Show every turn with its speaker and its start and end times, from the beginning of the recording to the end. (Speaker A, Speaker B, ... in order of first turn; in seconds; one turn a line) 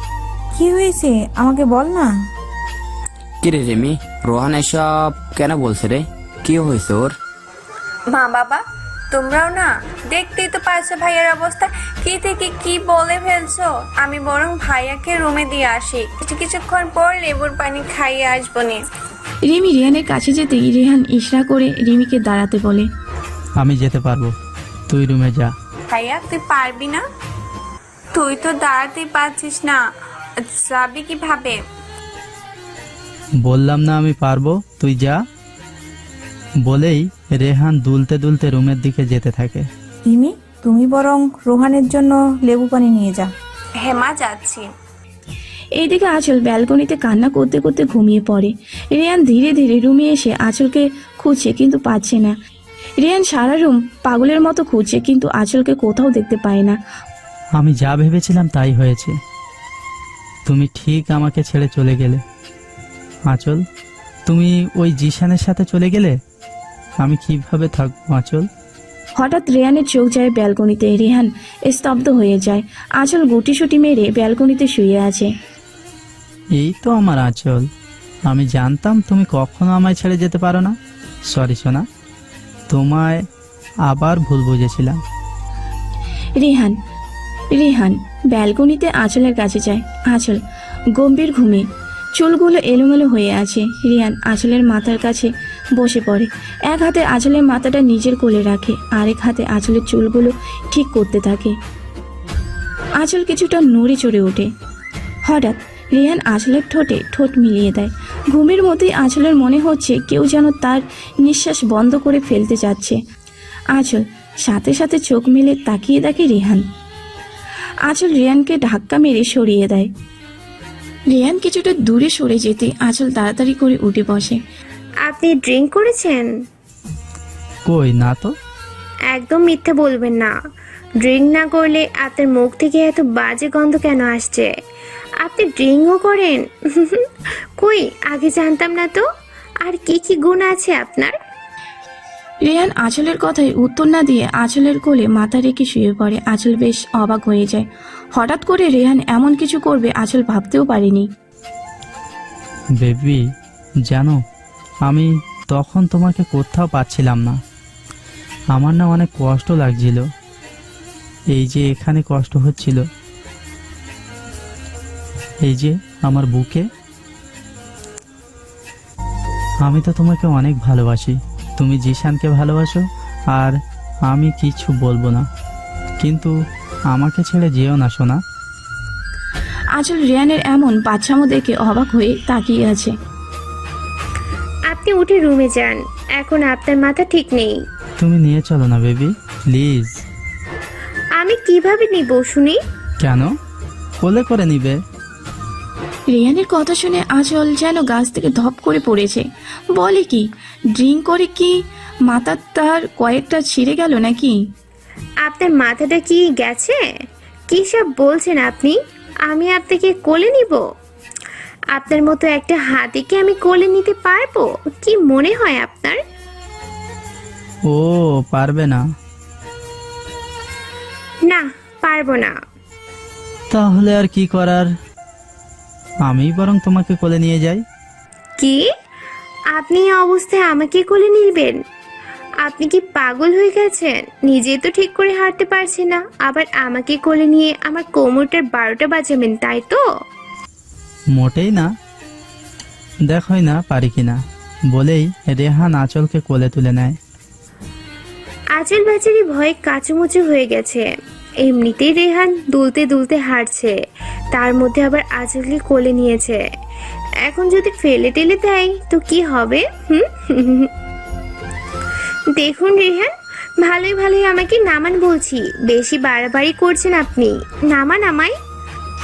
Speaker A: 0.6-2.1
Speaker B: 3.4-7.1
Speaker C: 8.1-18.8
Speaker D: 19.4-22.9
Speaker E: 23.6-24.4
Speaker E: 24.9-25.5
Speaker C: 25.9-27.0
Speaker C: 28.1-29.8
Speaker C: 30.4-31.6
Speaker E: 33.4-35.2
Speaker E: 36.6-39.7
Speaker A: 40.1-43.3
Speaker C: 43.8-44.7
Speaker D: 45.8-52.4
Speaker D: 53.0-56.8
Speaker E: 57.6-59.2
Speaker E: 60.5-62.2
Speaker E: 63.3-63.6
Speaker E: 64.2-66.2
Speaker E: 67.0-68.5
Speaker D: 69.2-75.3
Speaker E: 76.6-77.7
Speaker E: 78.3-80.8
Speaker E: 81.3-81.9
Speaker E: 82.7-83.2
Speaker E: 83.9-85.0
Speaker D: 86.4-86.8
Speaker D: 87.5-90.4
Speaker D: 90.9-101.6
Speaker D: 103.0-104.5
Speaker D: 105.2-113.0
Speaker D: 113.7-116.7
Speaker D: 117.9-119.9
Speaker D: 121.1-124.4
Speaker F: 125.0-126.3
Speaker E: 127.7-128.3
Speaker F: 129.1-130.3
Speaker F: 131.0-134.5
Speaker F: 135.2-139.1
Speaker F: 139.6-141.1
Speaker D: 142.4-151.1
Speaker E: 152.8-153.2
Speaker E: 153.9-154.2
Speaker E: 154.9-157.4
Speaker E: 158.5-160.1
Speaker E: 161.3-162.8
Speaker E: 165.4-166.7
Speaker E: 169.6-175.3
Speaker E: 176.0-176.4
Speaker E: 176.9-178.2
Speaker D: 179.8-183.0
Speaker F: 184.7-187.6
Speaker E: 188.0-190.0
Speaker F: 191.2-192.6
Speaker E: 193.0-193.4
Speaker E: 194.0-194.8
Speaker D: 196.1-204.5
Speaker F: 205.2-206.8
Speaker F: 207.5-210.6
Speaker F: 211.7-216.0
Speaker E: 217.7-218.8
Speaker F: 221.3-222.4
Speaker E: 223.5-224.7
Speaker E: 226.1-227.6
Speaker F: 228.4-228.7
Speaker F: 229.5-231.6
Speaker F: 232.4-239.8
Speaker E: 241.1-241.7
Speaker E: 243.1-244.2
Speaker E: 244.7-247.0
Speaker F: 248.6-250.9
Speaker F: 251.4-253.8
Speaker F: 254.3-256.5
Speaker F: 257.2-260.7
Speaker F: 262.3-268.4